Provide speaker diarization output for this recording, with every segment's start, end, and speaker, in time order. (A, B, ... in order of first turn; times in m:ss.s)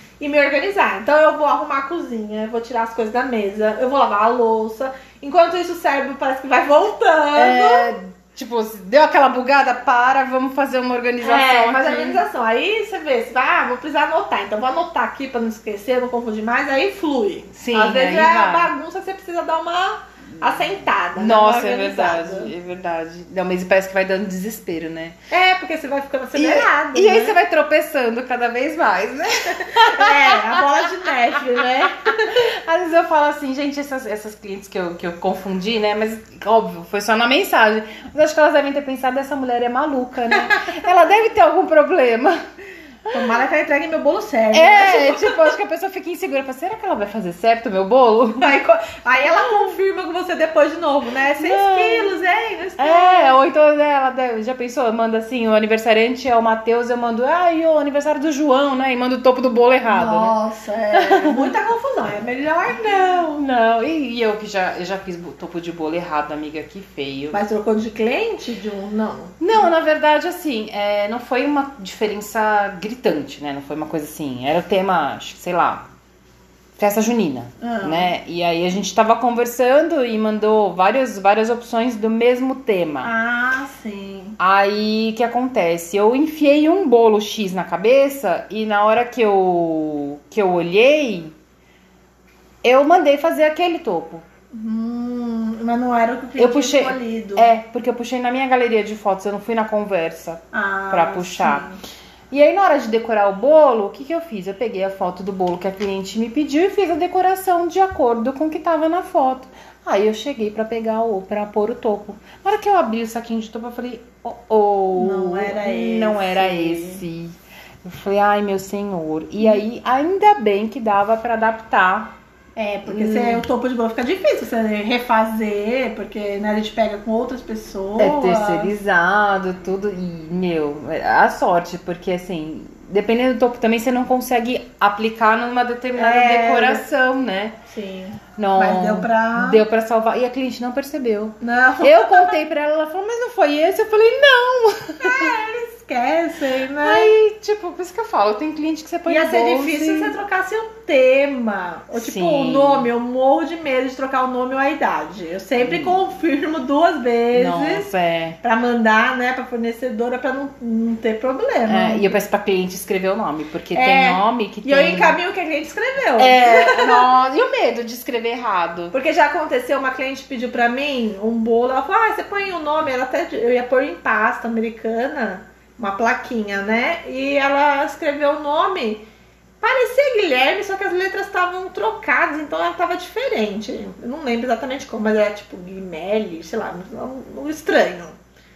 0:00.2-0:07.9 A
0:07.3-0:12.2 B
0:11.2-0:22.5 A
0:17.5-0:18.7 B
0:21.2-0:25.2 B
0:25.3-0:27.4 A
0:26.3-0:30.6 B
0:29.6-0:32.5 A
0:31.6-0:42.4 B
0:43.1-0:45.5 A
0:44.5-0:48.5 B
0:48.4-0:53.4 A
0:51.4-0:52.2 B
0:52.8-1:00.4 B
0:59.8-1:03.4 A
1:00.9-1:01.5 B
1:03.4-1:07.4 B
1:07.3-1:09.4 A
1:09.4-1:15.8 B
1:16.8-1:23.1 B
1:17.6-1:18.1 A
1:23.0-1:24.4 A
1:24.4-1:31.3 B
1:32.6-1:34.2 B
1:34.5-1:37.5 A
1:36.4-1:41.7 B
1:40.5-1:41.8 A
1:42.3-2:02.1 B
1:54.9-1:57.0 A
2:02.6-2:08.7 A
2:02.8-2:03.4 B
2:08.0-2:17.6 B
2:16.0-2:16.8 A
2:17.7-2:19.6 A
2:18.4-2:25.4 B
2:21.4-2:22.4 A
2:25.0-2:27.1 A
2:26.8-2:30.2 B
2:29.1-2:37.9 A
2:31.9-2:32.9 B
2:35.6-2:36.0 B
2:37.3-2:38.4 B
2:38.4-2:42.1 A
2:41.6-2:45.2 B
2:43.7-2:47.1 A
2:46.2-2:48.9 B
2:48.9-2:59.0 A
2:59.6-3:08.2 A